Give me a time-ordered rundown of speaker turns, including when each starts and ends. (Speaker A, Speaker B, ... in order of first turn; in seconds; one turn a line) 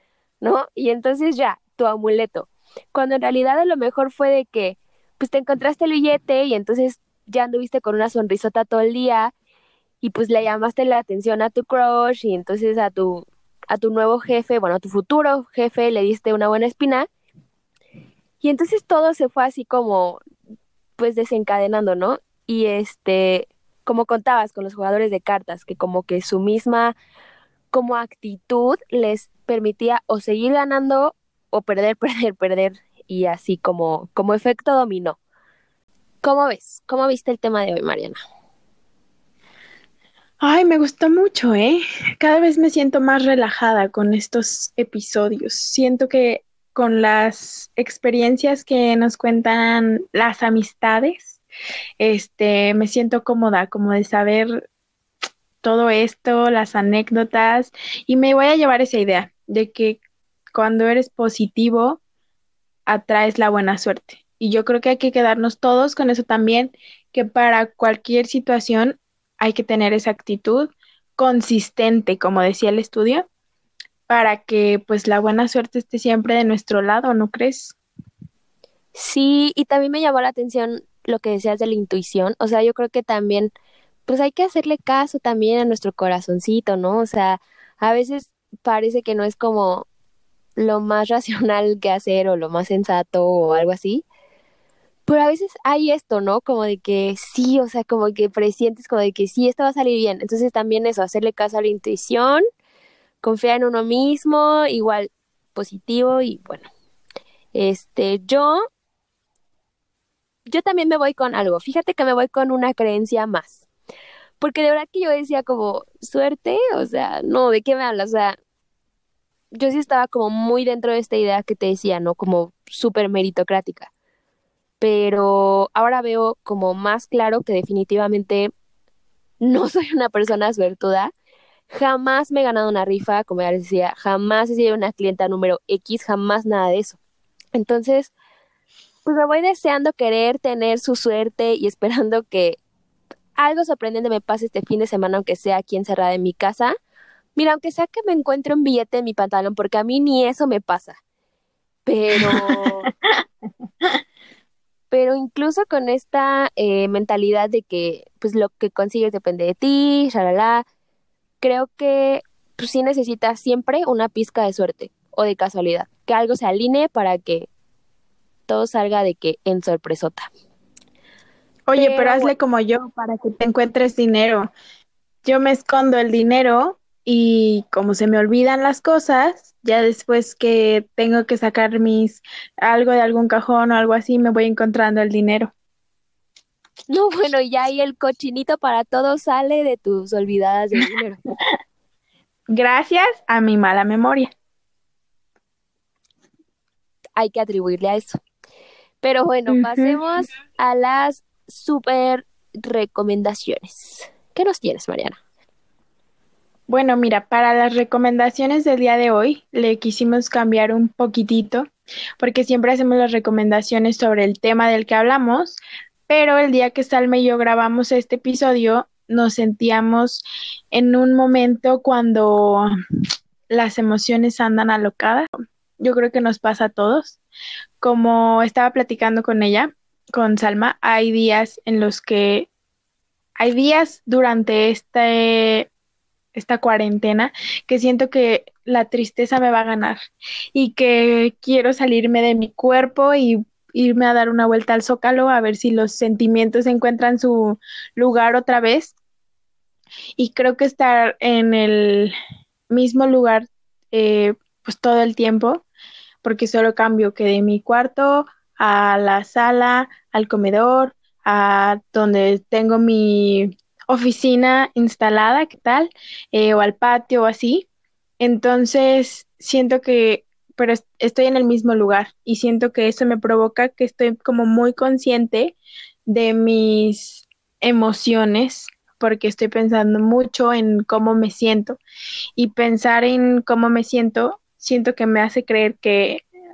Speaker A: 0.4-9.3
Speaker A: 10.0-17.1
Speaker A: 18.4-20.2
Speaker A: 21.0-26.9
Speaker A: 27.7-35.2
Speaker A: 36.2-38.2
Speaker B: 40.4-51.4
Speaker B: 52.0-54.7
Speaker B: 55.6-60.0
Speaker B: 60.5-62.0
Speaker B: 62.9-73.3
Speaker B: 74.1-77.8
Speaker A: 79.0-83.5
Speaker A: 84.1-89.9
Speaker A: 90.6-94.0
Speaker A: 95.1-102.4
Speaker A: 103.2-106.7
Speaker A: 107.5-108.6
Speaker A: 110.5-113.6
Speaker A: 114.4-118.4
Speaker A: 119.5-123.9
Speaker A: 124.8-128.5
Speaker A: 129.4-131.1
Speaker A: 131.7-137.0
Speaker A: 137.5-138.1
Speaker A: 139.1-142.6
Speaker A: 143.4-146.8
Speaker A: 147.4-151.0
Speaker A: 151.9-152.9
Speaker B: 152.2-152.6
Speaker A: 154.9-160.7
Speaker A: 161.4-167.5
Speaker A: 168.5-170.3
Speaker B: 171.7-174.5
Speaker A: 171.8-172.3
Speaker B: 175.2-185.5
Speaker A: 186.9-191.2
Speaker B: 192.5-194.3
Speaker A: 197.2-198.2
Speaker A: 199.0-205.2
Speaker B: 199.5-200.0
Speaker B: 206.7-211.7
Speaker B: 212.2-222.7
Speaker B: 223.5-227.2
Speaker B: 227.8-232.5
Speaker B: 233.4-235.7
Speaker B: 236.3-240.0
Speaker B: 240.5-248.9
Speaker B: 250.2-252.1
Speaker B: 252.7-255.6
Speaker B: 256.2-267.7
Speaker B: 268.2-275.6
Speaker B: 276.1-281.8
Speaker B: 282.4-286.2